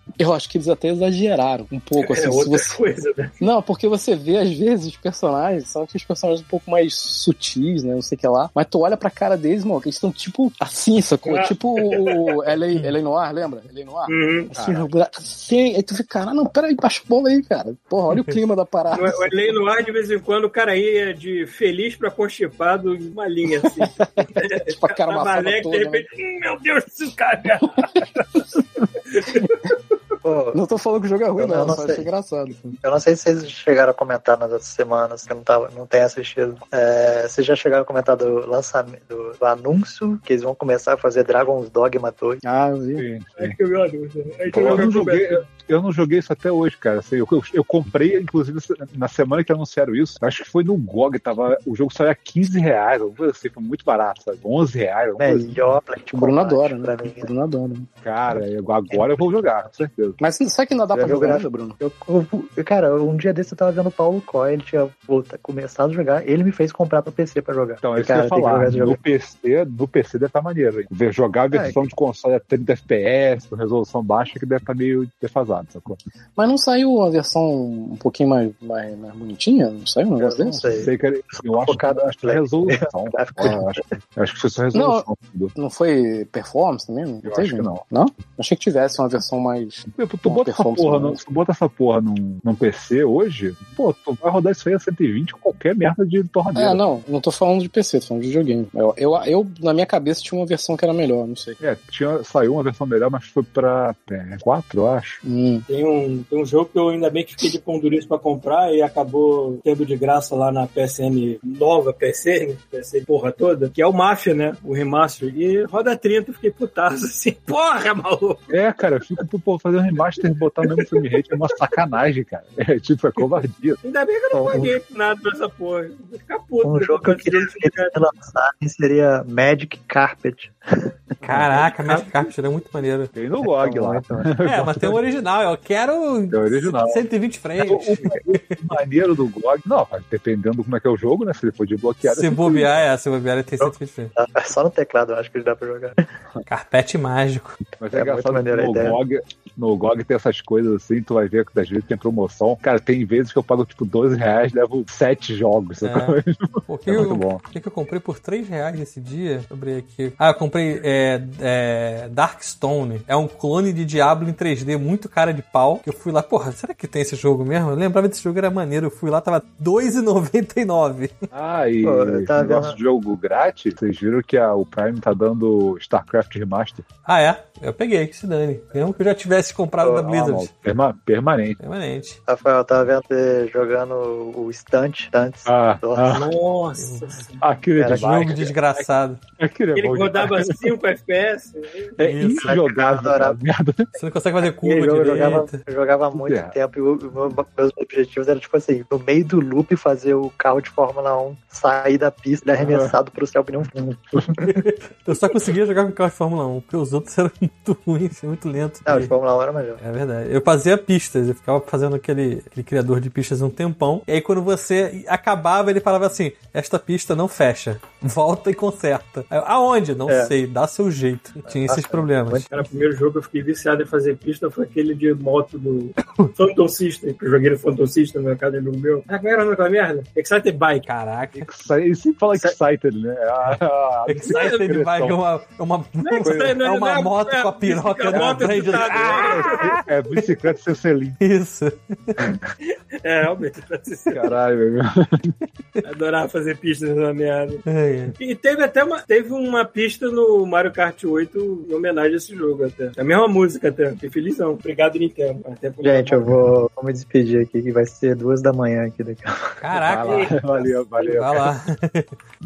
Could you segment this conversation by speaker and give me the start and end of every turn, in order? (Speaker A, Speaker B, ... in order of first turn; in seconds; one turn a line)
Speaker A: 0.2-2.8
Speaker B: 2.0-3.5
Speaker A: 3.4-19.3
Speaker B: 11.2-12.2
Speaker B: 14.1-14.5
Speaker C: 14.5-14.9
Speaker B: 18.9-28.4
Speaker A: 23.8-26.0
Speaker B: 29.1-29.7
Speaker D: 30.2-30.6
Speaker A: 30.5-32.8
Speaker D: 31.4-32.1
Speaker D: 32.8-42.4
Speaker A: 42.4-43.0
Speaker C: 43.0-43.5
Speaker B: 43.4-45.4
Speaker C: 44.5-55.6
Speaker D: 55.2-57.3
Speaker A: 56.1-57.9
Speaker C: 58.0-60.2
Speaker A: 60.2-61.8
Speaker D: 60.9-69.0
Speaker C: 67.8-76.0
Speaker D: 71.5-71.8
Speaker A: 76.4-80.6
Speaker D: 80.2-83.8
Speaker C: 80.7-85.5
Speaker A: 84.7-91.2
Speaker C: 87.2-87.8
Speaker C: 89.9-96.8
Speaker A: 96.5-101.6
Speaker C: 101.6-105.2
Speaker A: 105.2-105.6
Speaker B: 105.7-118.5
Speaker C: 118.5-123.8
Speaker B: 123.8-128.0
Speaker D: 124.3-124.7
Speaker D: 126.6-131.0
Speaker E: 131.2-133.1
Speaker C: 133.1-135.0
Speaker D: 133.4-134.3
Speaker E: 134.4-138.6
Speaker C: 136.3-137.0
Speaker C: 137.6-142.8
Speaker E: 142.0-144.1
Speaker D: 143.6-146.0
Speaker E: 146.5-147.6
Speaker C: 147.8-157.4
Speaker D: 147.9-149.0
Speaker E: 155.8-171.1
Speaker C: 171.3-176.8
Speaker D: 171.8-172.8
Speaker E: 177.1-180.5
Speaker D: 179.8-180.2
Speaker C: 180.2-181.6
Speaker E: 181.6-182.2
Speaker D: 182.3-186.2
Speaker C: 185.4-186.3
Speaker B: 186.1-187.4
Speaker E: 186.8-187.1
Speaker C: 187.4-188.5
Speaker D: 187.8-188.1
Speaker E: 187.9-189.2
Speaker C: 189.4-190.6
Speaker B: 189.7-192.0
Speaker C: 192.0-193.9
Speaker E: 192.0-192.6
Speaker D: 192.3-193.4
Speaker E: 194.0-195.6
Speaker D: 194.4-204.5
Speaker C: 196.1-196.6
Speaker C: 202.6-202.9
Speaker E: 204.4-209.1
Speaker D: 208.8-209.8
Speaker E: 209.8-222.5
Speaker D: 220.1-220.3
Speaker D: 221.5-222.5
Speaker B: 222.5-230.9
Speaker E: 230.8-231.5
Speaker C: 231.4-235.2
Speaker E: 234.1-239.8
Speaker B: 234.2-234.6
Speaker B: 236.0-239.8
Speaker C: 236.2-236.6
Speaker C: 238.1-241.2
Speaker E: 241.2-242.3
Speaker B: 242.6-244.3
Speaker C: 244.1-245.3
Speaker B: 245.8-247.6
Speaker E: 247.7-248.1
Speaker B: 248.2-256.3
Speaker D: 255.8-259.6
Speaker E: 259.6-260.3
Speaker C: 259.7-261.5
Speaker B: 260.1-260.7
Speaker E: 261.0-262.1